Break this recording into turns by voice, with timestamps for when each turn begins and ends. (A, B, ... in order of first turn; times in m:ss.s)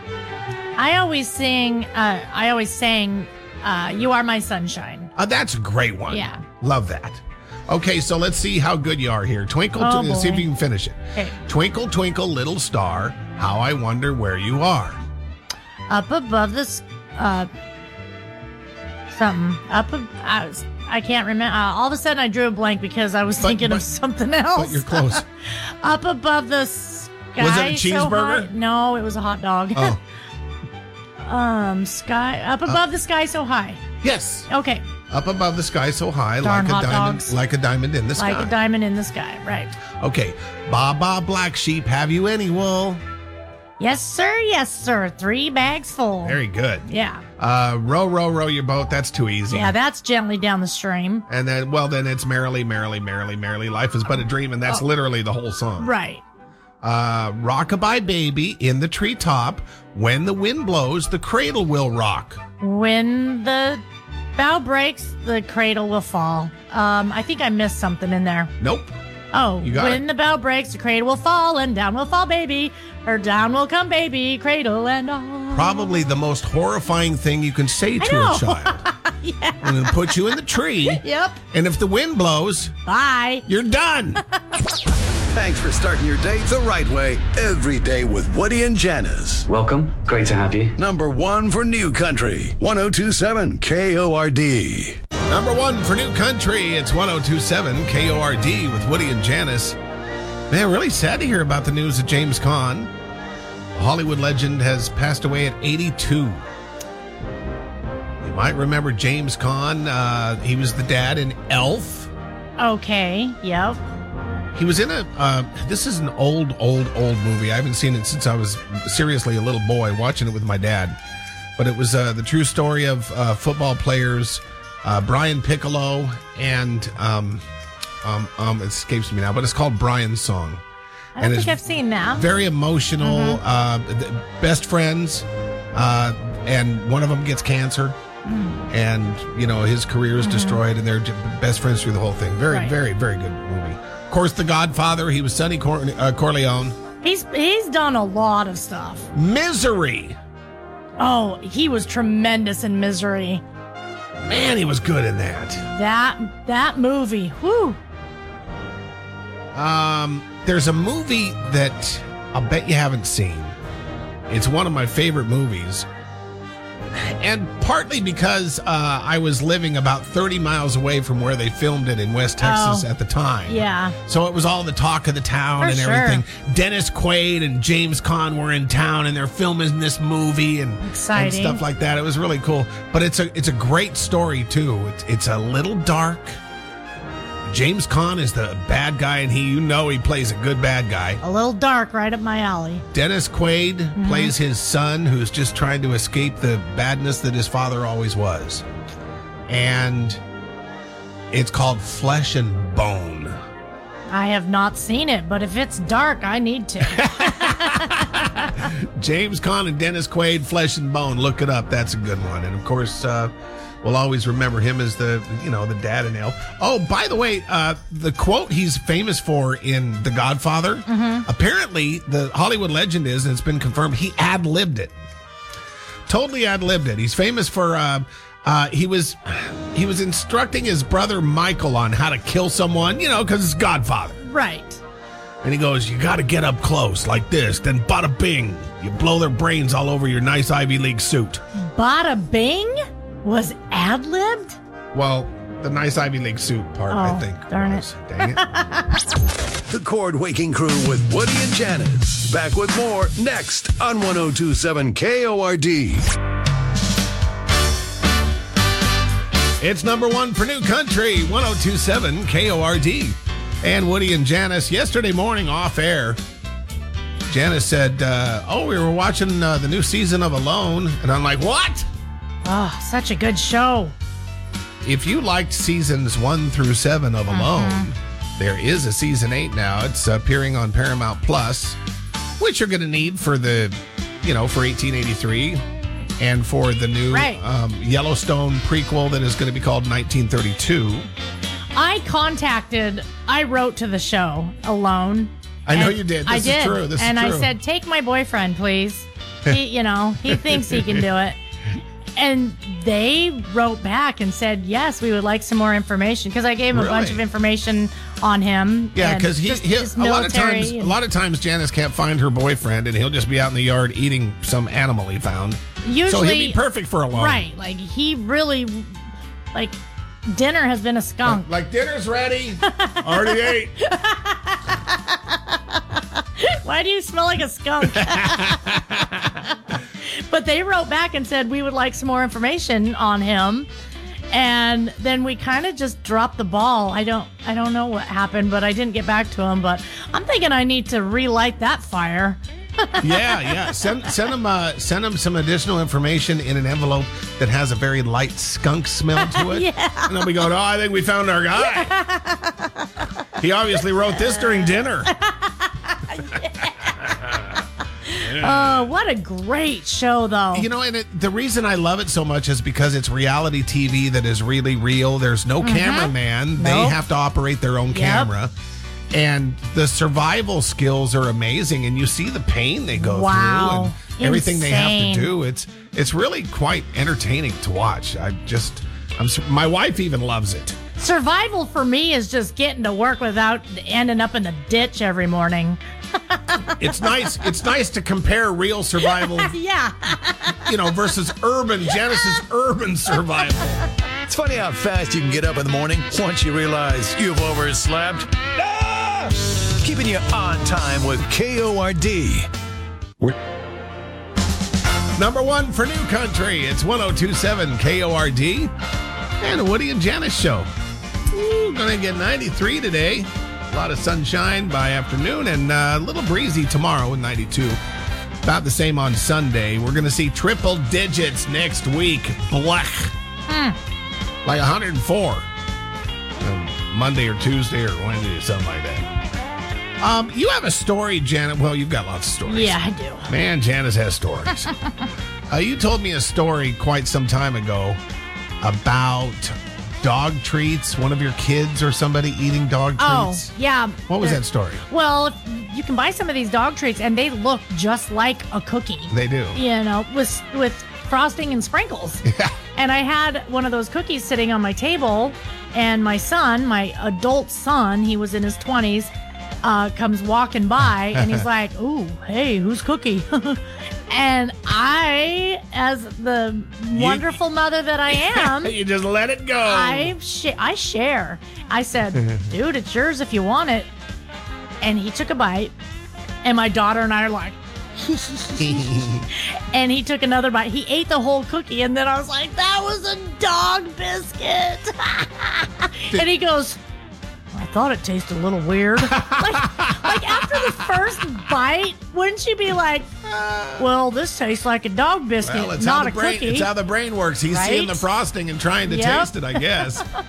0:00.8-0:05.1 A
0:05.2-0:15.0 B
0:06.1-0:06.4 A
0:09.8-0:10.5 A
0:15.9-0:17.5 A
0:19.1-0:25.2 A
0:23.4-0:23.8 B
0:24.5-0:25.2 B
0:25.8-0:30.0 A
0:27.4-0:28.5 B
0:31.2-0:33.8 A
0:34.0-0:34.5 B
0:34.5-0:34.8 A
0:35.1-0:38.5 B
0:36.4-0:37.3 A
0:38.2-0:39.7 A
0:40.0-0:43.0 B
0:43.8-0:47.2 A
0:46.2-0:46.8 B
0:47.4-0:49.7 B
0:49.5-0:51.2 A
0:51.3-0:55.9 B
0:55.8-0:56.2 A
0:56.8-1:02.4 B
1:02.6-1:03.8 A
1:04.4-1:08.5 A
1:08.6-1:08.9 B
1:09.3-1:15.9 A
1:09.6-1:10.0 B
1:15.5-1:18.8 B
1:18.0-1:20.2 A
1:19.6-1:22.7 B
1:20.8-1:21.4 A
1:22.9-1:23.4 A
1:23.5-1:24.2 B
1:25.3-1:29.5 C
1:29.5-1:30.7 D
1:30.8-1:35.0 C
1:35.3-1:39.8 B
1:40.5-1:42.9 B
1:43.8-1:46.4 B
1:48.2-1:52.1 B
1:52.6-1:53.8 A
1:54.5-2:01.0 B
2:01.6-2:07.4 B
2:08.0-2:10.6 B
2:11.2-2:12.2 A
2:11.2-2:11.6 B
2:12.1-2:18.0 B
2:13.0-2:13.4 A
2:18.2-2:18.7 A
2:18.7-2:26.8 B
2:20.2-2:20.6 A
2:27.0-2:29.1 A
2:29.1-2:30.2 B
2:31.0-2:33.4 A
2:34.3-2:35.6 B
2:35.7-2:37.8 A
2:39.5-2:43.5 B
2:44.3-2:45.9 B
2:46.9-3:06.4 B
2:52.4-2:52.9 A
2:53.5-2:53.9 A
2:55.6-2:56.2 A
3:00.8-3:01.6 A
3:07.5-3:11.2 B
3:11.2-3:12.8 A
3:12.9-3:18.6 B
3:14.0-3:14.3 A
3:19.5-3:20.2 B
3:21.3-3:23.4 B
3:24.1-3:28.0 A
3:26.9-3:33.3 B
3:33.8-3:44.9 B
3:40.9-3:41.2 A
3:46.1-3:54.2 B
3:54.2-3:54.8 A
3:55.4-4:01.4 B
4:01.6-4:04.6 A
4:04.9-4:08.4 B
4:06.9-4:08.9 A
4:09.7-4:16.0 C
4:19.6-4:26.2 B
4:27.3-4:31.9 B
4:32.4-4:33.9 A
4:34.8-4:41.8 B
4:37.3-4:37.9 A
4:42.4-4:45.6 B
4:46.2-4:51.1 B
4:47.1-4:47.4 A
4:51.8-5:01.4 A
4:55.6-4:57.5 B
5:00.3-5:01.0 B
5:02.2-5:10.9 A
5:06.7-5:07.2 B
5:08.9-5:17.4 B
5:15.8-5:16.6 A
5:17.1-5:18.9 A
5:19.5-5:21.5 A
5:21.2-5:23.7 B
5:22.7-5:28.8 A
5:27.9-5:29.0 B
5:30.1-5:33.7 A
5:34.3-5:43.8 A
5:43.0-5:51.9 B
5:49.2-5:50.3 A
5:51.6-5:52.9 A
5:53.4-5:55.1 B
5:54.1-5:57.1 A
5:58.0-6:00.7 A
5:58.3-5:58.9 B
6:00.5-6:08.5 B
6:05.6-6:07.0 A
6:07.9-6:08.3 A
6:09.1-6:20.8 B
6:13.0-6:15.3 A
6:21.0-6:27.0 A
6:26.8-6:29.5 B
6:29.0-6:30.7 A
6:30.6-6:33.8 B
6:34.3-6:38.3 C
6:34.4-6:36.1 D
6:39.8-6:42.5 C
6:45.2-6:48.7 B
6:49.4-6:50.7 B
6:51.3-6:57.8 B
6:58.4-7:03.1 B
7:03.5-7:03.8 A
7:04.4-7:05.4 B
7:06.4-7:09.1 B
7:10.0-7:14.7 B
7:12.5-7:13.3 A
7:15.5-7:18.0 B
7:18.6-7:23.5 B
7:23.0-7:32.2 A
7:24.1-7:24.8 B
7:29.1-7:29.6 B
7:32.2-7:32.5 B
7:32.8-7:39.1 A
7:39.6-7:48.7 A
7:41.1-7:41.4 B
7:46.9-7:47.3 B
7:48.1-7:50.1 B
7:49.6-7:53.9 A
7:54.8-7:55.7 A
7:56.4-8:06.8 A
7:58.6-7:59.2 B
8:07.5-8:13.1 A
8:09.0-8:11.1 B
8:13.2-8:13.9 B
8:13.8-8:16.7 A
8:15.4-8:20.1 B
8:17.5-8:18.0 A
8:18.9-8:19.3 A